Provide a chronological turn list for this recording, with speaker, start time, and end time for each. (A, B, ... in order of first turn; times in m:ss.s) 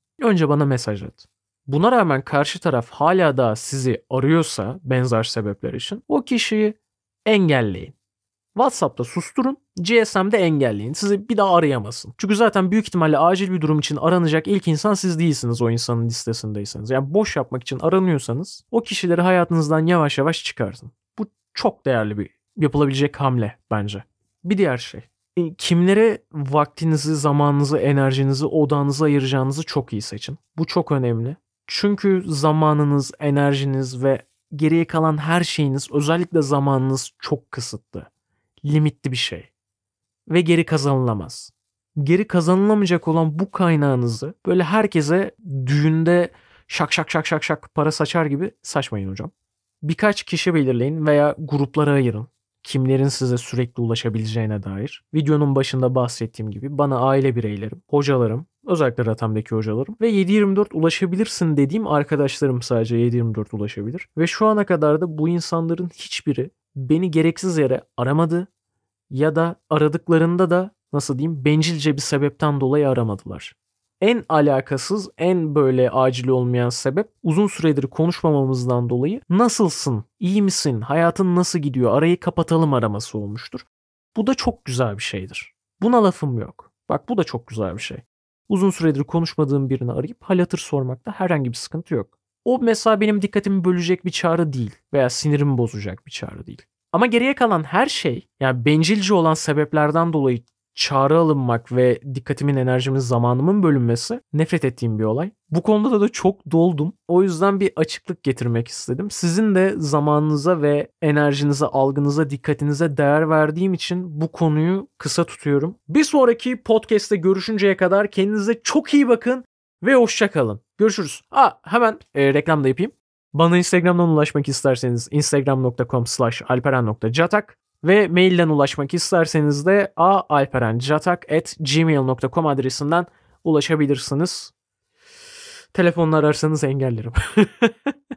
0:00.2-0:07.9 A
0:08.6-0:38.1 A
0:38.6-0:39.5 A
0:40.3-0:49.3 A
0:49.8-1:08.5 A
1:09.1-2:14.5 A
2:15.7-2:17.9 A